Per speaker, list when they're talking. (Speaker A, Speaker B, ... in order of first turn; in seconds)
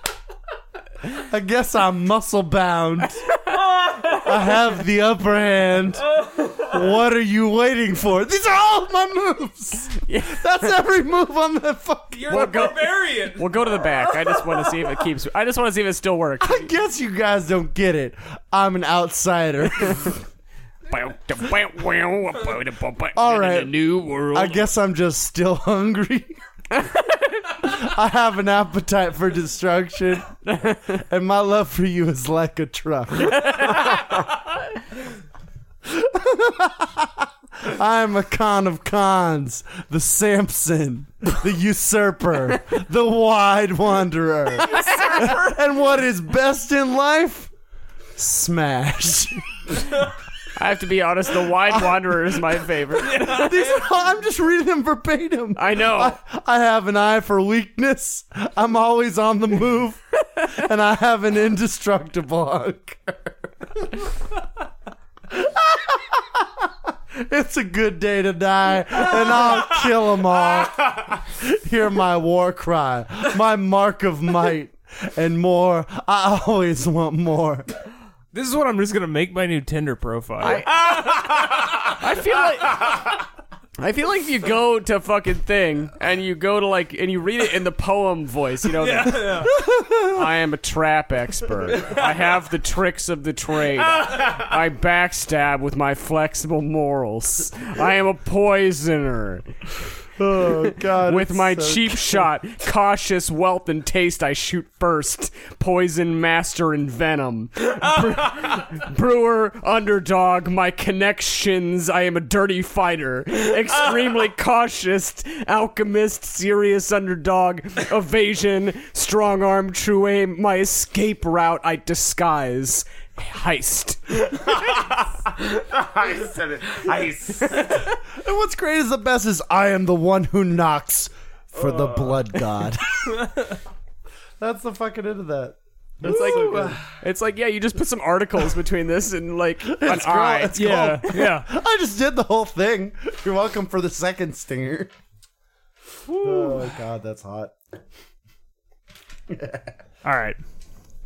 Speaker A: 1.1-3.2, 4.1-12.7, 16.4-20.2, 23.1-26.4, 27.6-30.3, 30.9-33.9, 35.8-47.5, 48.1-49.9, 53.0-64.0, 65.3-77.7, 89.5-90.2, 100.2-102.3, 127.9-133.2, 134.4-136.8, 139.6-144.9, 146.1-147.5, 149.3-149.7
Speaker B: 3.3-4.1, 10.1-10.7, 12.3-16.7, 20.9-24.7, 26.7-27.7, 30.4-30.9, 33.2-34.2, 50.5-53.7, 55.5-56.2, 80.4-83.2, 83.8-99.5, 100.4-124.7, 136.0-140.6
Speaker C: 3.6-4.2, 6.2-6.6, 12.2-14.3, 78.3-80.7, 88.7-89.5, 133.2-133.5, 140.5-141.5, 146.3-146.6, 150.0-150.4
Speaker D: 80.9-81.7, 124.5-127.9, 131.6-132.2